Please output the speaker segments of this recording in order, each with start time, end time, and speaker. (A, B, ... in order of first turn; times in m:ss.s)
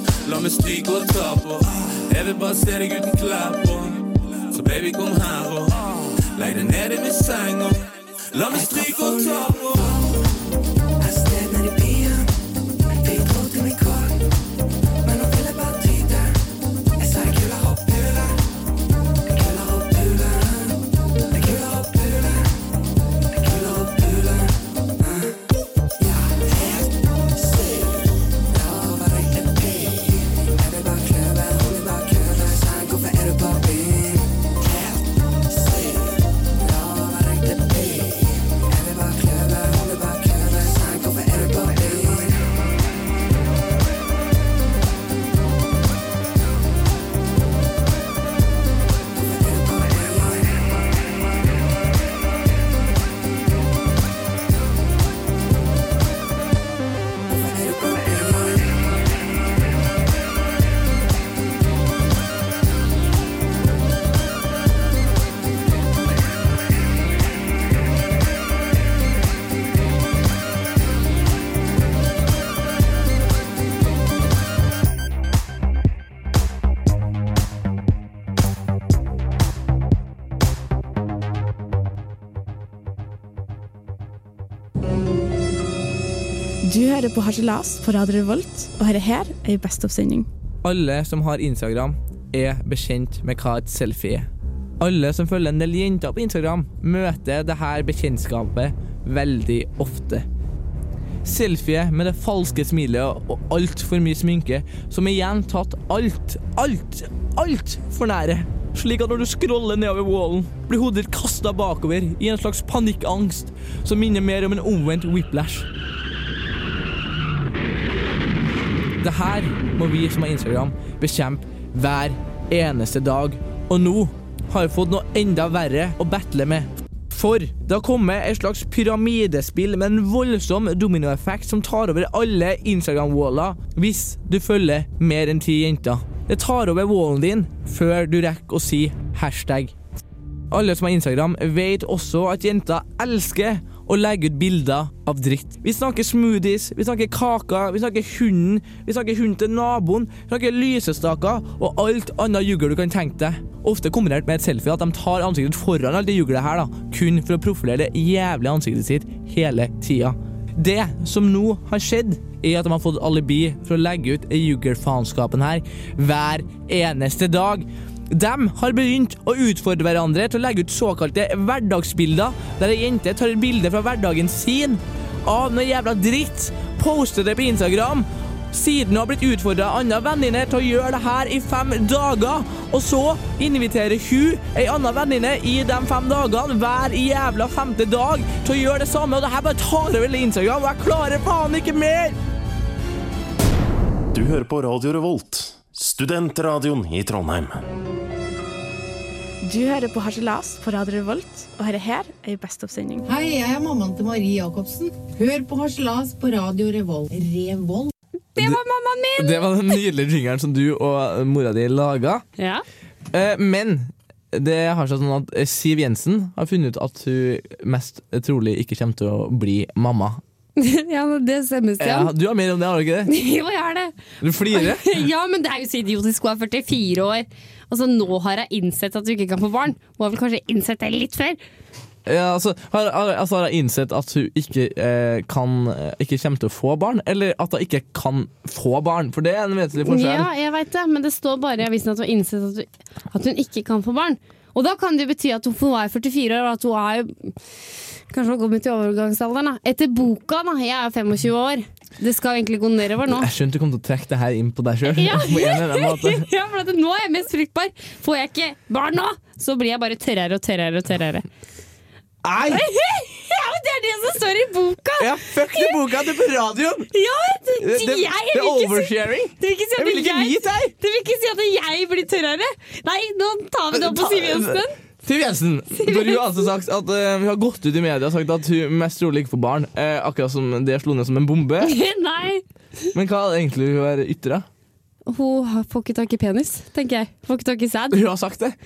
0:00.2-0:09.9 A
0:08.5-0:10.3 B
0:11.0-0:12.3 B
0:13.0-0:14.2 B
0:15.0-0:16.4 B
0:17.0-0:18.4 B
0:19.3-0:20.8 B
0:21.3-0:22.6 B
0:23.4-0:25.4 B
0:26.0-0:42.6 B
0:49.2-0:51.0 B
0:57.3-0:59.0 B
1:26.6-1:30.3 C
1:30.6-1:34.3 D
1:34.8-1:40.2 D
1:41.2-1:55.6 D
1:59.0-2:19.7 D
2:20.5-3:12.2 D
3:14.1-3:17.6 E
3:19.4-3:23.1 C
3:23.0-3:27.9 F
3:28.4-3:29.8 G
3:29.2-3:32.2 D
3:32.4-3:32.6 G
3:33.1-3:40.2 D
3:40.6-3:42.1 G
3:41.8-3:43.1 D
3:43.1-3:44.0 G
3:44.2-3:45.0 D
3:44.5-3:51.4 G
3:52.0-4:00.3 D
3:59.8-4:07.3 G
4:08.1-4:13.3 G
4:13.1-4:16.3 D
4:14.9-4:21.2 G
4:22.2-4:22.6 D
4:22.5-4:25.8 G
4:25.0-4:26.9 D
4:26.9-4:34.7 G
4:27.6-4:30.7 D
4:33.7-4:41.8 D
4:35.8-4:36.4 G
4:41.6-4:42.4 G
4:42.9-4:44.4 D
4:45.0-4:48.0 G
4:47.9-4:48.6 D